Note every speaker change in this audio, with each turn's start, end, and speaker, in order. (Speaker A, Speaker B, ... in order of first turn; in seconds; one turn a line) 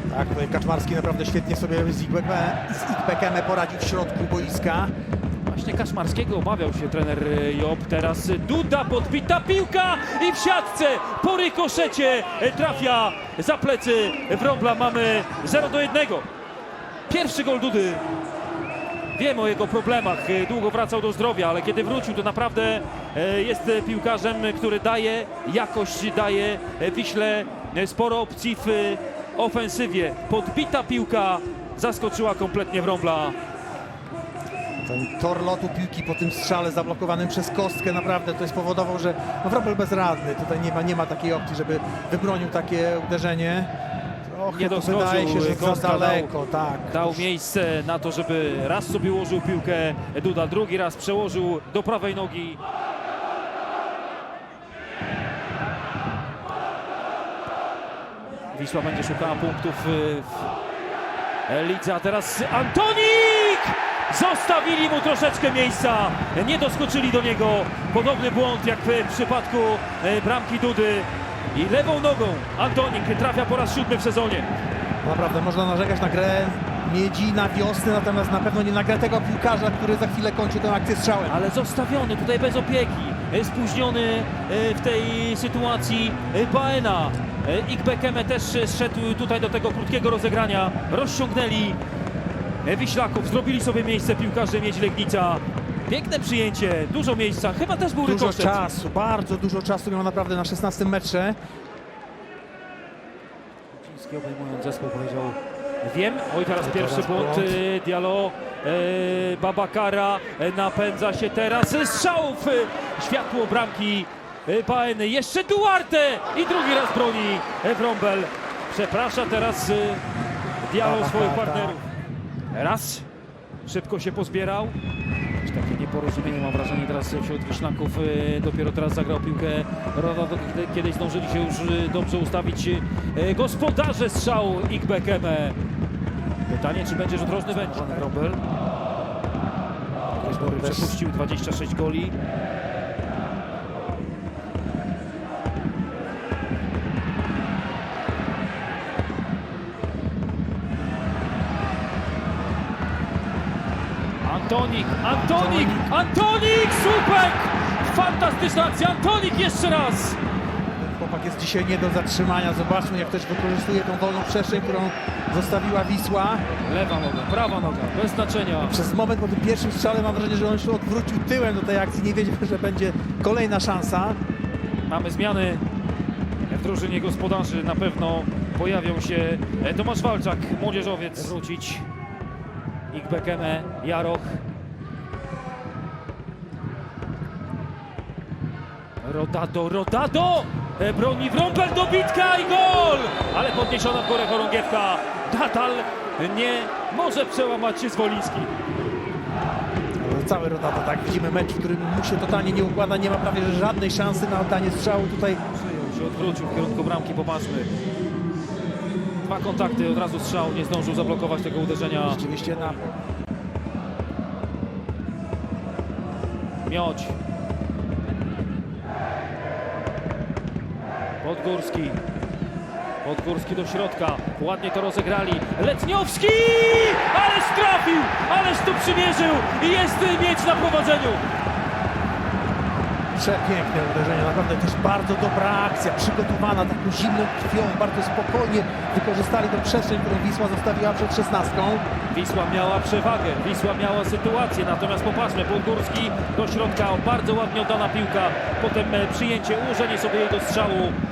Speaker A: 0.1-4.9
Speaker B: 5.5-16.3
Speaker B: 17.1-18.0
Speaker B: 19.1-33.4
Speaker A: 34.9-43.7
Speaker A: 44.3-47.3
Speaker B: 44.5-46.3
Speaker B: 46.9-52.6
Speaker B: 58.5-60.5
Speaker B: 61.5-74.5
Speaker A: 75.0-81.4
Speaker B: 81.3-91.8
Speaker B: 92.6-98.7
Speaker A: 98.0-101.4
Speaker B: 103.7-120.0
Speaker A: 106.6-107.6
Speaker B: 120.6-121.8
Speaker A: 120.8-121.8
Speaker B: 122.5-123.1
Speaker B: 123.7-124.8
Speaker B: 125.5-135.6
Speaker B: 136.5-138.4
Speaker A: 137.5-138.1
Speaker A: 140.2-141.0
Speaker B: 140.3-142.2
Speaker B: 154.2-160.2
Speaker A: 155.0-155.9
Speaker A: 160.8-166.4
Speaker B: 166.6-168.8
Speaker A: 168.7-174.2
Speaker B: 174.9-175.6
Speaker B: 176.5-181.9
Speaker B: 182.9-184.4
Speaker B: 189.0-198.5
Speaker A: 200.0-205.4
Speaker B: 205.5-207.7
Speaker B: 209.2-212.2
Speaker A: 212.1-212.9
Speaker B: 216.7-217.2
Speaker B: 221.2-222.0
Speaker B: 223.0-231.2
Speaker A: 233.2-241.8
Speaker B: 242.1-251.0